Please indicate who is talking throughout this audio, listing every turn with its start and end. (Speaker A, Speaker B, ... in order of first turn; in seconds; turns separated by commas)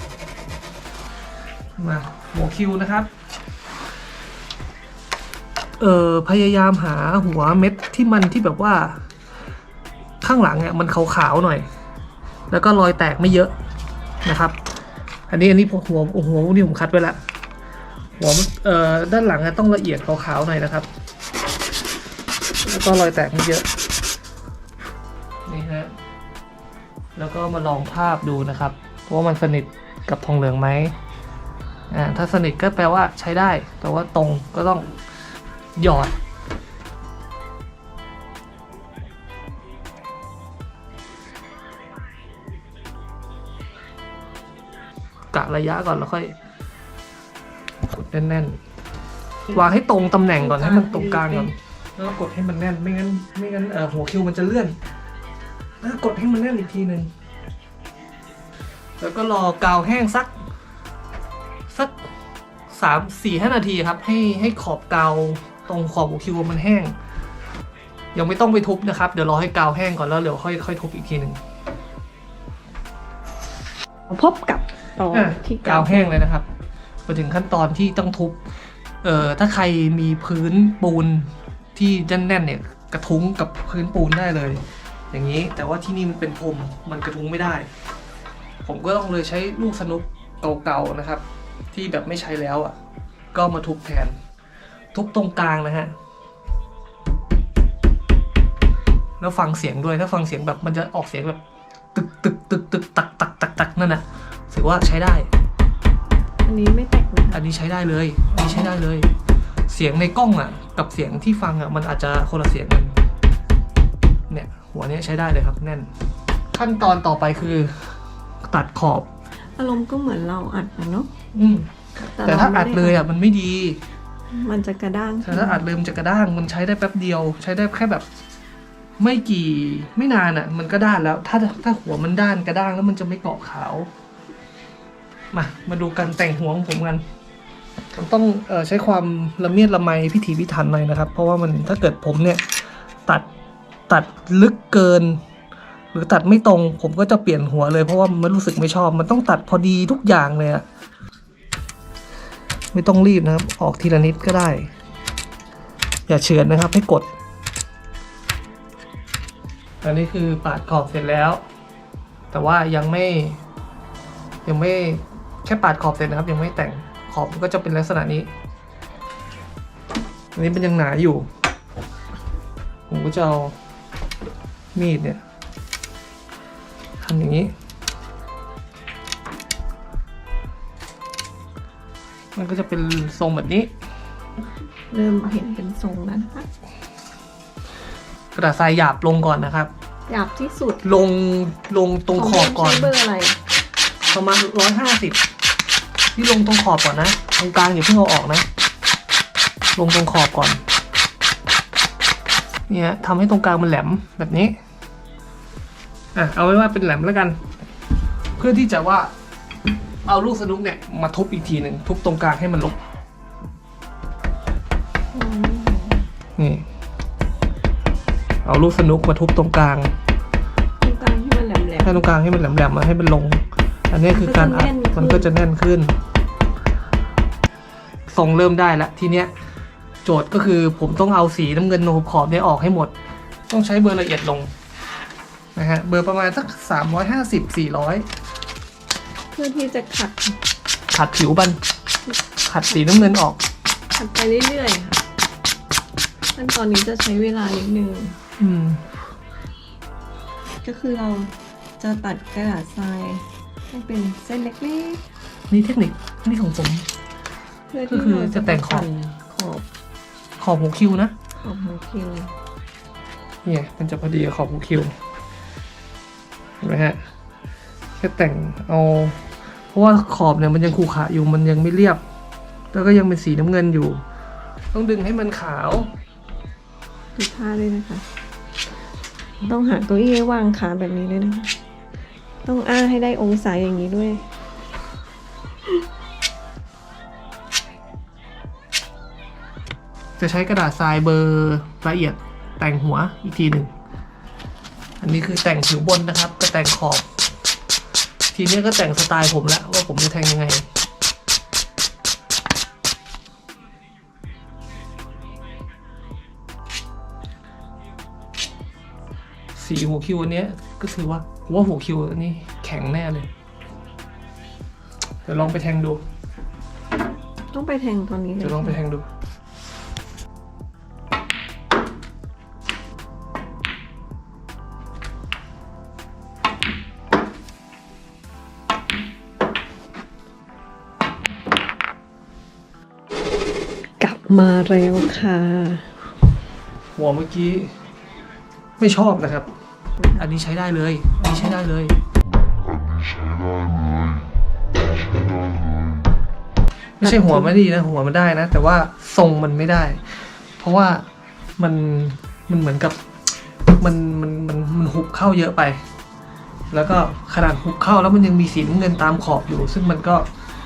Speaker A: 1.8-3.1, Speaker A: 5.8-9.0, Speaker A: 10.2-11.7, Speaker A: 12.5-13.5, Speaker A: 14.2-14.6, Speaker A: 15.3-17.2, Speaker A: 18.2-20.9, Speaker A: 22.6-23.7, Speaker A: 25.5-25.9, Speaker A: 27.1-30.9, Speaker A: 31.9-34.9, Speaker A: 35.8-36.1, Speaker A: 45.3-46.3, Speaker A: 47.9-48.6, Speaker A: 49.5-54.8, Speaker B: 50.4-51.5, Speaker A: 55.8-57.1, Speaker A: 59.0-60.3, Speaker A: 61.7-62.0, Speaker A: 62.7-67.0, Speaker A: 68.1-71.4, Speaker B: 74.1-76.2, Speaker A: 75.1-76.5, Speaker A: 77.1-78.4, Speaker A: 79.0-87.7, Speaker A: 88.6-92.8, Speaker A: 93.3-94.2, Speaker A: 94.9-95.9, Speaker A: 99.2-101.4, Speaker A: 101.9-105.3, Speaker B: 106.4-107.4, Speaker A: 107.3-109.1, Speaker A: 109.7-113.0, Speaker A: 114.3-115.9, Speaker A: 116.5-119.1, Speaker B: 119.5-121.1, Speaker A: 121.3-123.8, Speaker B: 122.2-123.0, Speaker B: 124.3-125.7, Speaker A: 125.2-128.0, Speaker A: 129.0-133.9, Speaker A: 135.3-137.0, Speaker A: 137.9-142.4, Speaker A: 143.9-145.2, Speaker A: 145.9-150.6, Speaker A: 152.7-154.7, Speaker A: 156.1-157.1, Speaker A: 159.8-161.4, Speaker A: 162.3-163.4, Speaker A: 164.4-168.3, Speaker A: 170.3-171.3, Speaker A: 172.9-173.5, Speaker A: 174.7-175.2, Speaker A: 177.0-177.5, Speaker A: 182.3-183.7, Speaker B: 184.9-186.4, Speaker A: 188.3-189.7, Speaker B: 190.1-190.8, Speaker A: 190.8-192.9, Speaker B: 192.1-193.4, Speaker A: 194.1-195.2, Speaker A: 196.1-198.4, Speaker A: 199.8-200.6, Speaker A: 202.7-204.6, Speaker A: 206.1-207.4, Speaker A: 208.4-209.1, Speaker A: 210.1-212.8, Speaker B: 215.1-216.0, Speaker A: 216.4-216.6, Speaker A: 218.4-219.9, Speaker B: 220.8-222.0, Speaker A: 221.8-225.9, Speaker B: 224.1-225.3, Speaker A: 228.1-229.3, Speaker A: 230.0-232.9, Speaker A: 233.5-234.5, Speaker A: 235.6-238.1, Speaker B: 239.3-240.3, Speaker A: 240.9-241.6, Speaker A: 242.4-243.4, Speaker B: 242.7-243.1, Speaker B: 243.9-245.0, Speaker B: 246.3-248.2, Speaker A: 248.4-248.8, Speaker B: 250.6-255.0, Speaker A: 255.5-256.9, Speaker B: 257.7-259.6, Speaker A: 257.9-258.9, Speaker A: 260.4-261.1, Speaker B: 261.4-262.3, Speaker A: 263.4-264.9, Speaker A: 266.6-267.0, Speaker A: 268.0-269.2, Speaker A: 269.7-272.0, Speaker A: 272.7-274.0, Speaker A: 274.7-275.9, Speaker B: 277.1-278.0, Speaker B: 279.4-281.5, Speaker B: 282.4-284.2, Speaker A: 290.2-293.7, Speaker A: 295.0-297.1, Speaker A: 298.3-300.7, Speaker A: 309.5-313.3, Speaker A: 315.2-316.0, Speaker B: 317.5-318.8, Speaker A: 318.4-319.1, Speaker B: 334.0-335.9, Speaker A: 336.9-337.7, Speaker A: 338.8-339.5, Speaker A: 340.1-341.9, Speaker A: 347.0-350.0, Speaker B: 347.0-347.6, Speaker A: 350.6-351.1, Speaker A: 351.6-352.9, Speaker A: 353.8-355.8, Speaker A: 356.7-360.3